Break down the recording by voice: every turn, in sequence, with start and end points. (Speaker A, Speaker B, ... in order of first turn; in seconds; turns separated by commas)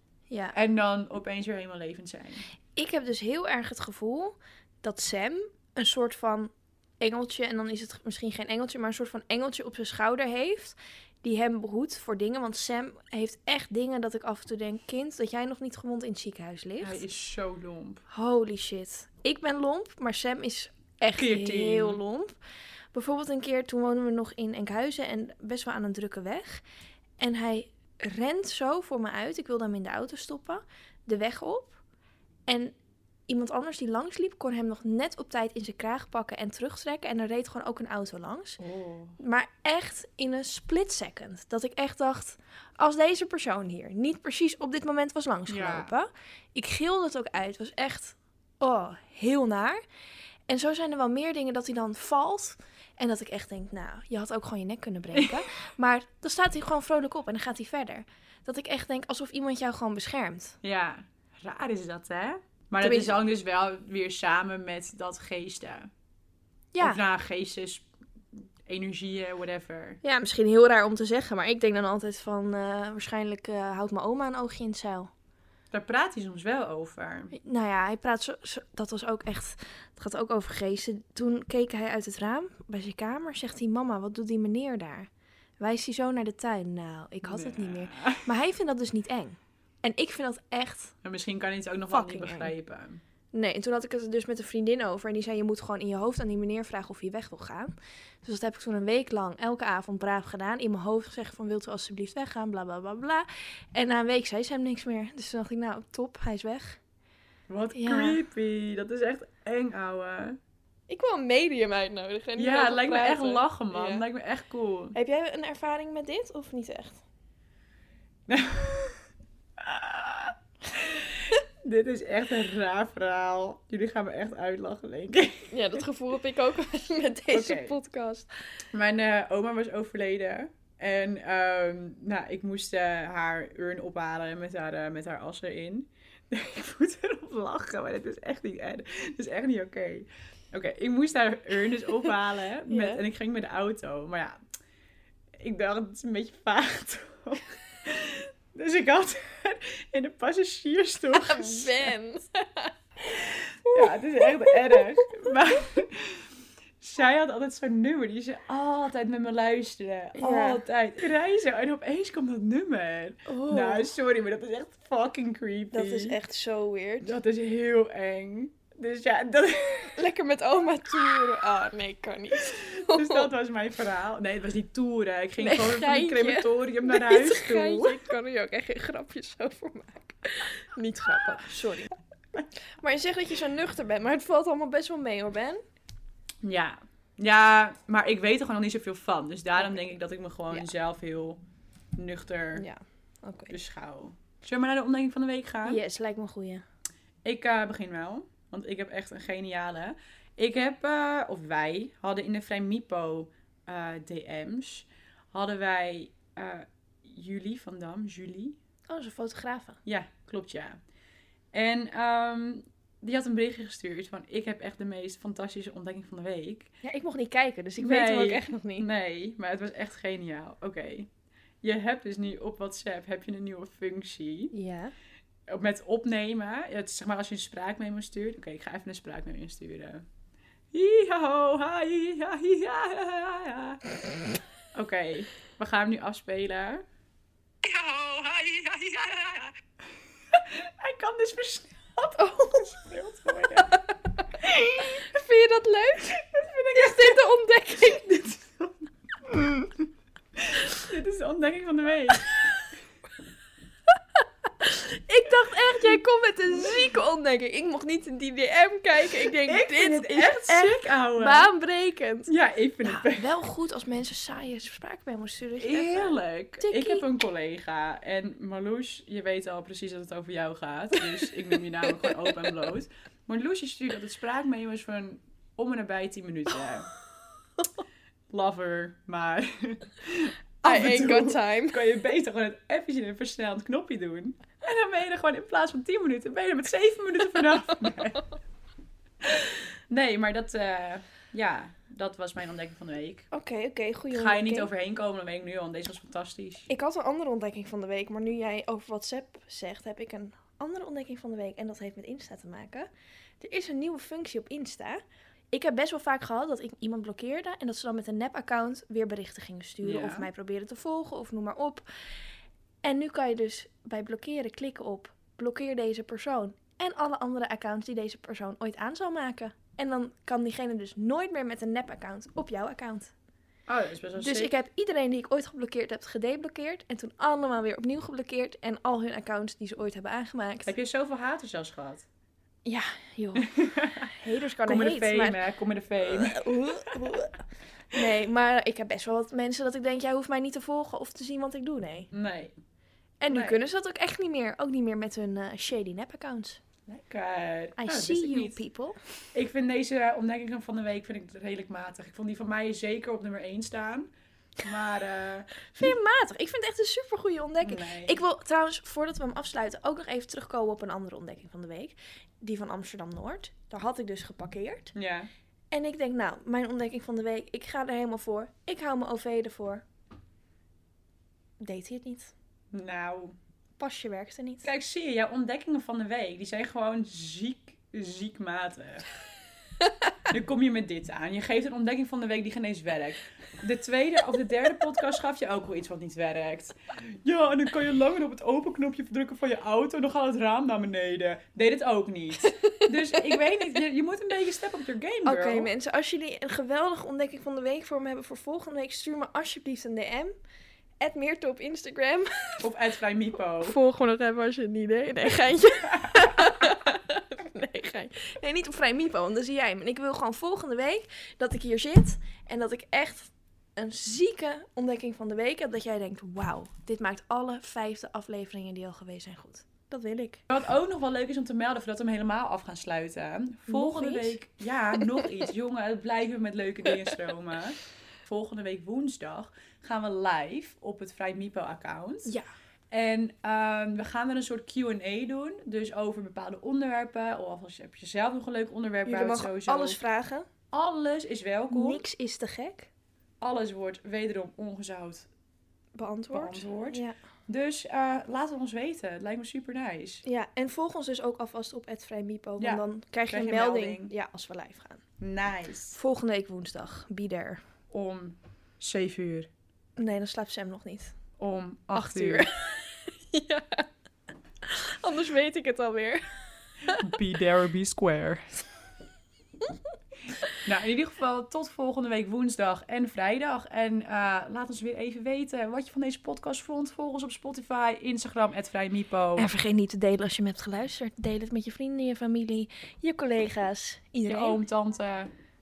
Speaker A: 0.3-0.6, Speaker B: 0.5-2.5, Speaker A: 2.8-17.0, Speaker B: 16.8-18.0, Speaker A: 18.1-22.4, Speaker B: 21.2-22.0, Speaker A: 22.9-26.6, Speaker A: 27.2-31.8, Speaker A: 32.5-32.7, Speaker A: 33.3-38.6, Speaker B: 38.6-39.2, Speaker A: 39.2-49.8, Speaker B: 45.5-45.9, Speaker A: 50.5-60.6, Speaker B: 55.1-55.4, Speaker B: 60.6-65.9, Speaker A: 62.8-63.2, Speaker A: 66.7-67.0, Speaker B: 66.8-70.0, Speaker A: 70.0-75.1, Speaker B: 75.7-77.3, Speaker A: 77.3-85.1, Speaker A: 85.6-90.9, Speaker B: 87.2-88.3, Speaker B: 91.0-93.0, Speaker A: 91.9-92.5, Speaker A: 93.3-97.7, Speaker A: 98.2-106.8, Speaker B: 107.5-110.4, Speaker A: 107.8-108.2, Speaker A: 110.9-114.0, Speaker B: 112.4-115.0, Speaker A: 114.9-117.0, Speaker B: 118.3-119.0, Speaker B: 119.6-125.5, Speaker A: 125.5-128.3, Speaker B: 127.3-127.7, Speaker B: 128.7-144.4, Speaker A: 142.7-143.0, Speaker B: 145.4-151.9, Speaker A: 151.1-155.3, Speaker B: 153.7-156.3, Speaker B: 156.8-166.2, Speaker A: 160.2-160.6, Speaker A: 163.3-163.9, Speaker A: 165.7-167.1, Speaker B: 167.0-169.9, Speaker A: 170.0-173.3, Speaker B: 172.4-178.1, Speaker A: 175.4-181.9, Speaker A: 182.8-185.6, Speaker B: 186.4-191.4, Speaker A: 189.6-189.9, Speaker B: 192.0-192.7, Speaker A: 192.6-193.6, Speaker B: 193.5-195.8, Speaker A: 195.7-196.6, Speaker B: 197.2-208.6, Speaker A: 208.9-209.8, Speaker B: 209.9-210.8, Speaker B: 211.5-216.7, Speaker A: 216.8-218.9, Speaker B: 217.8-221.1, Speaker B: 221.6-224.5, Speaker A: 224.5-224.9, Speaker B: 225.5-230.0, Speaker B: 230.7-233.8, Speaker B: 234.7-236.8, Speaker B: 237.6-239.5, Speaker B: 240.3-243.8, Speaker A: 242.2-242.7, Speaker B: 244.4-245.1, Speaker A: 244.8-246.1, Speaker B: 246.0-249.7, Speaker A: 246.7-248.0, Speaker B: 250.4-252.4, Speaker A: 254.2-262.3, Speaker B: 259.2-261.5, Speaker B: 262.3-263.3, Speaker A: 262.8-267.0, Speaker B: 265.6-276.9, Speaker A: 271.9-272.5, Speaker B: 278.3-288.3, Speaker A: 280.6-281.8, Speaker B: 289.2-293.3, Speaker A: 293.3-294.7, Speaker B: 294.1-296.7, Speaker A: 296.7-302.9, Speaker A: 303.4-305.0, Speaker A: 305.5-311.9, Speaker B: 309.8-310.3, Speaker A: 312.8-323.1, Speaker B: 323.7-324.5, Speaker A: 324.2-330.7, Speaker B: 330.7-332.1, Speaker A: 332.7-333.5, Speaker B: 333.4-334.1, Speaker A: 334.1-335.4, Speaker B: 334.6-337.1, Speaker A: 336.1-342.1, Speaker B: 342.1-342.6, Speaker A: 343.2-346.6, Speaker B: 343.3-343.6, Speaker B: 346.9-348.6, Speaker A: 347.8-349.0, Speaker B: 349.3-354.1, Speaker B: 354.6-355.6, Speaker A: 355.7-364.9, Speaker B: 357.6-358.2, Speaker B: 364.9-365.3, Speaker A: 365.7-369.8, Speaker A: 371.6-372.3, Speaker B: 372.7-373.4, Speaker A: 373.8-374.7, Speaker B: 374.6-379.1, Speaker B: 380.3-395.7, Speaker A: 392.4-393.4, Speaker A: 395.3-400.3, Speaker A: 401.0-402.6, Speaker B: 402.6-403.8, Speaker A: 403.6-420.4, Speaker B: 406.0-406.5, Speaker B: 420.5-432.3, Speaker A: 423.7-424.4, Speaker A: 425.0-425.3, Speaker B: 432.9-440.0, Speaker A: 439.1-440.5, Speaker B: 440.7-442.0, Speaker A: 441.7-442.9, Speaker B: 443.4-445.3, Speaker A: 446.0-447.1, Speaker B: 446.3-450.2, Speaker A: 450.2-455.0, Speaker B: 452.6-454.1, Speaker B: 455.2-456.0, Speaker A: 455.9-457.6, Speaker B: 457.9-459.5, Speaker A: 460.0-461.1, Speaker B: 461.4-462.5, Speaker A: 461.9-463.9, Speaker A: 464.6-467.0, Speaker B: 467.0-468.6, Speaker B: 470.6-479.5, Speaker A: 479.4-484.6, Speaker B: 484.3-485.3